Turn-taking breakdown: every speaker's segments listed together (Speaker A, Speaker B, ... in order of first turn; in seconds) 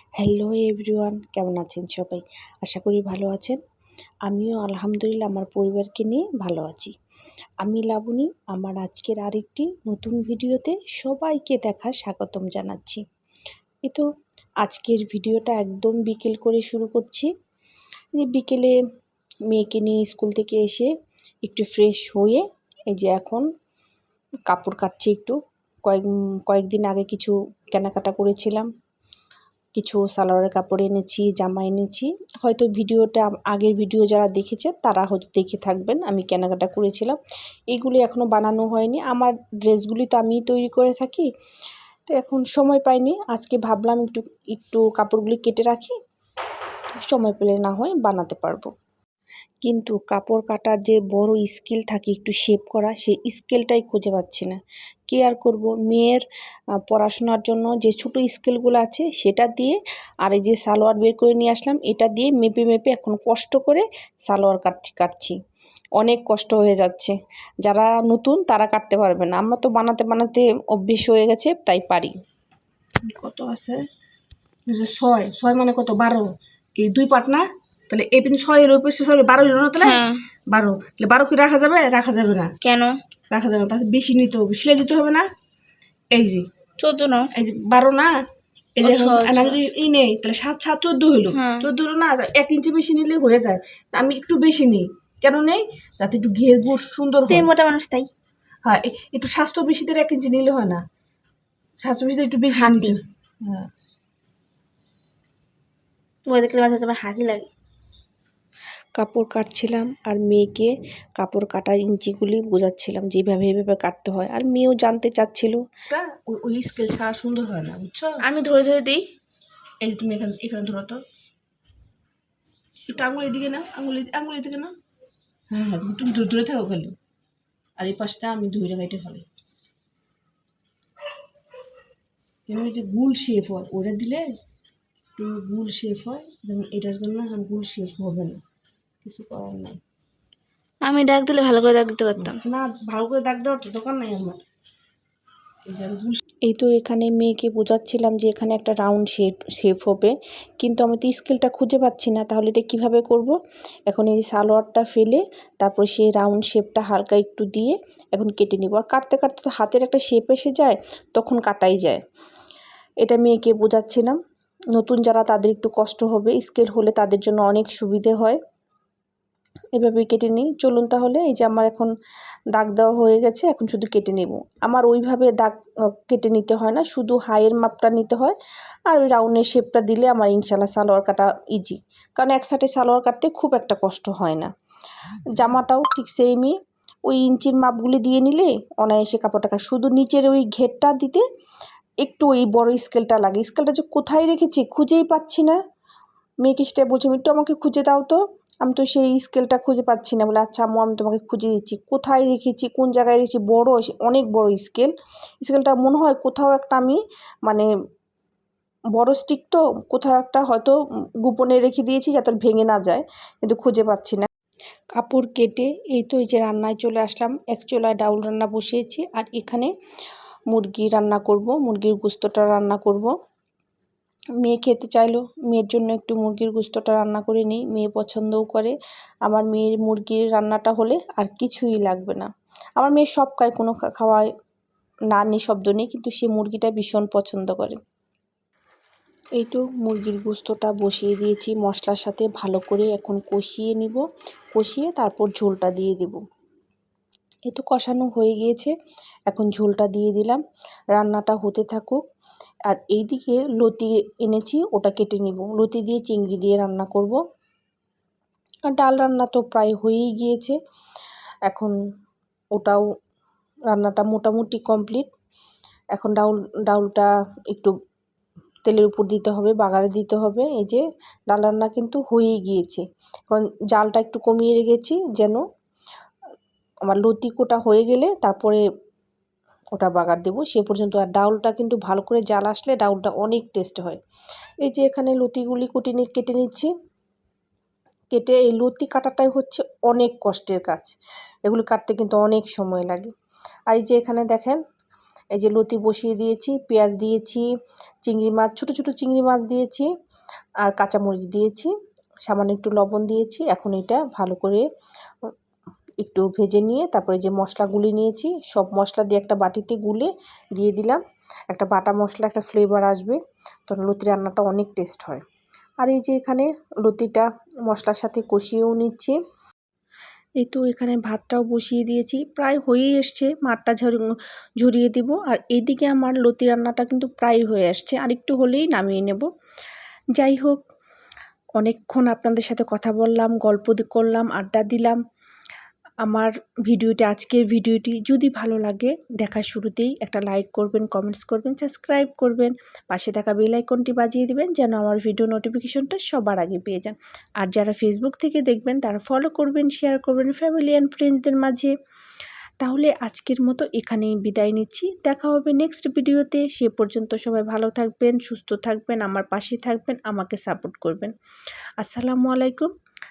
Speaker A: 0.2-3.6, 4.3-6.9, 7.6-13.0, 14.6-17.3, 18.1-18.7, 19.5-20.9, 21.4-23.4, 24.5-28.7, 29.8-37.2, 37.7-41.3, 42.1-45.9, 47.0-48.7, 49.6-54.6, 55.1-56.2, 56.9-65.3, 66.0-72.1, 73.3-73.7, 78.9-79.9, 88.9-89.4, 109.0-116.6, 123.3-123.8, 146.5-153.3, 153.9-162.0, 163.0-164.2, 164.7-168.4, 169.8-171.9, 172.6-178.3, 178.9-184.5, 185.3-191.2, 192.0-195.6, 196.4-207.7, 208.9-214.3, 215.0-219.7, 220.5-223.1, 224.4-228.8, 229.3-232.3, 232.8-234.3, 235.1-237.8, 239.4-244.0, 244.5-246.2, 247.5-248.7, 249.3-250.4, 250.9-252.0, 252.7-257.2, 258.7-260.6, 261.5-261.7, 262.6-262.8, 263.7-265.1, 265.9-267.7, 268.6-275.4, 276.9-278.6, 279.8-284.0, 284.6-286.7, 288.1-293.1, 293.7-294.6, 295.4-297.4, 298.0-299.9, 300.6-301.7, 302.3-304.6, 306.0-315.2, 315.8-319.2, 320.4-324.1, 324.6-329.3, 330.1-330.6, 331.6-335.0, 336.1-351.7, 352.6-361.1, 361.8-362.7
Speaker B: 73.1-73.8, 74.7-76.2, 76.8-79.8, 80.5-82.5, 83.3-85.2, 86.2-86.4, 87.4-88.1, 88.8-97.4, 98.7-100.8, 101.8-103.0, 116.2-118.1, 119.9-121.0, 122.9-124.7, 125.5-126.9, 127.8-129.2, 132.5-134.3, 135.2-138.4, 139.0-139.8, 142.2-144.3, 145.7-146.2
Speaker C: 79.8-80.2, 82.6-83.0, 86.8-87.3, 88.8-89.6, 91.3-91.7, 97.3-98.1, 102.5-103.0, 106.3-107.5, 118.2-119.0, 140.8-142.4